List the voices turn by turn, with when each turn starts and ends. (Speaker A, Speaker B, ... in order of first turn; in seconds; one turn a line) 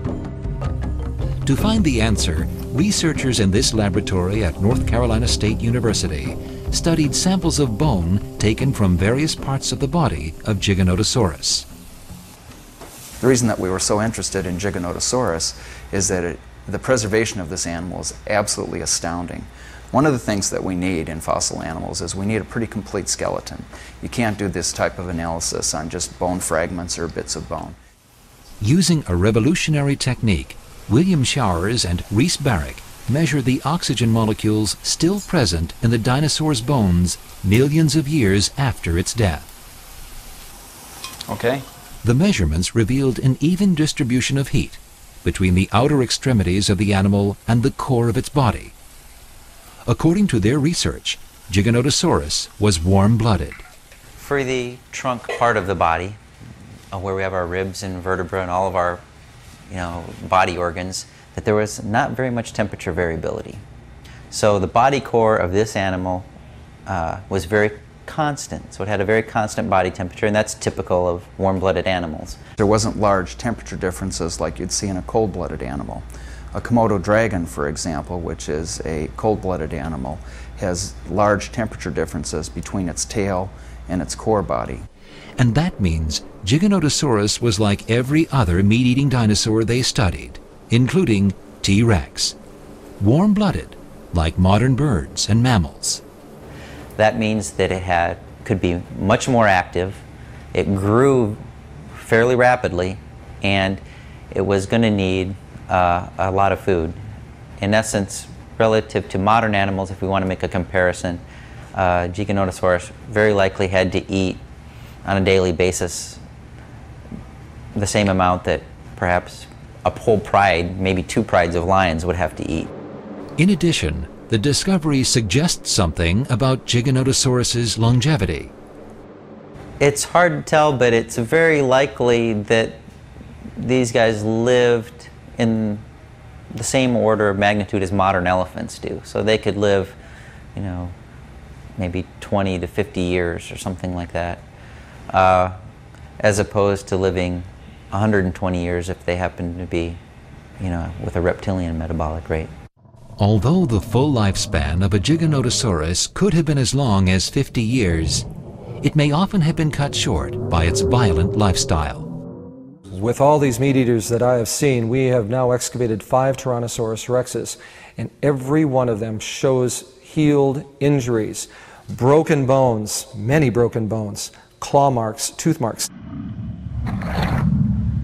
Speaker A: 1.4-11.7
Speaker B: 13.2-27.8
Speaker A: 28.6-39.5
Speaker B: 41.3-41.6
Speaker A: 42.0-48.8
Speaker A: 49.9-53.6
Speaker C: 54.2-56.2
Speaker C: 56.9-59.0
Speaker C: 59.7-63.6
Speaker C: 64.3-66.3
Speaker C: 66.9-72.4
Speaker B: 72.6-84.9
Speaker A: 85.4-92.4
Speaker A: 93.0-96.0
Speaker C: 97.0-107.0
Speaker C: 107.6-111.2
Speaker C: 111.8-114.4
Speaker C: 115.0-116.2
Speaker C: 117.7-122.7
Speaker A: 123.4-128.5
Speaker C: 129.8-132.8
Speaker C: 133.6-135.8
Speaker C: 136.5-140.0
Speaker C: 140.6-141.0
Speaker C: 141.8-144.4
Speaker C: 145.1-145.6
Speaker C: 146.2-150.0
Speaker C: 150.6-152.5
Speaker A: 153.2-158.3
Speaker A: 158.8-162.1
Speaker D: 162.9-175.9